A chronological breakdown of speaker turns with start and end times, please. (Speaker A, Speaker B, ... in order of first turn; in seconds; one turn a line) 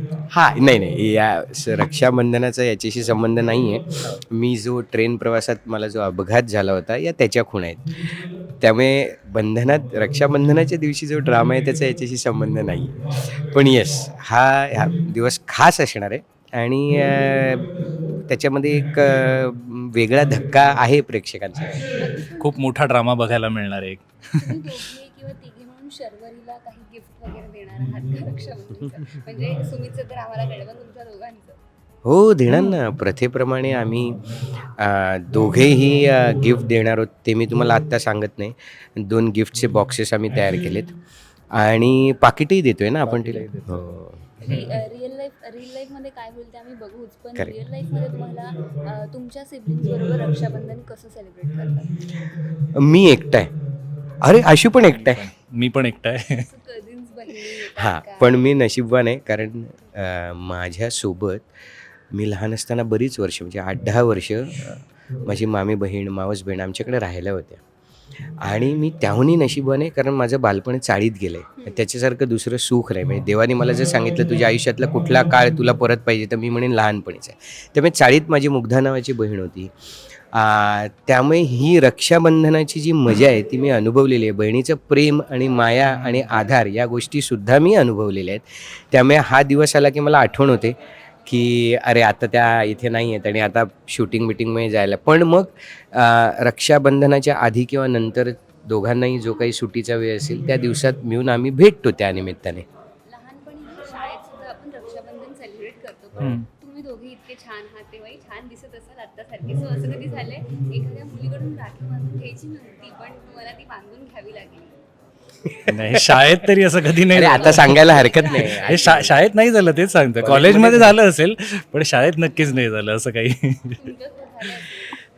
Speaker A: 0.3-21.9
Speaker B: 21.9-22.6
Speaker C: 22.4-24.6
Speaker B: 24.4-31.6
Speaker A: 32.0-41.0
Speaker A: 41.5-44.2
Speaker C: 43.0-44.0
Speaker B: 44.4-52.0
Speaker A: 52.7-53.5
Speaker A: 54.2-55.3
Speaker C: 54.8-56.5
Speaker B: 56.4-58.4
Speaker A: 57.7-61.5
Speaker A: 62.1-67.6
Speaker A: 68.4-79.7
Speaker B: 71.6-71.8
Speaker A: 80.3-102.7
Speaker B: 103.1-114.7
Speaker C: 106.2-106.5
Speaker A: 115.4-116.3
Speaker C: 115.7-123.9
Speaker A: 117.1-119.2
Speaker B: 117.2-119.0
Speaker A: 120.2-121.0
Speaker B: 123.8-125.0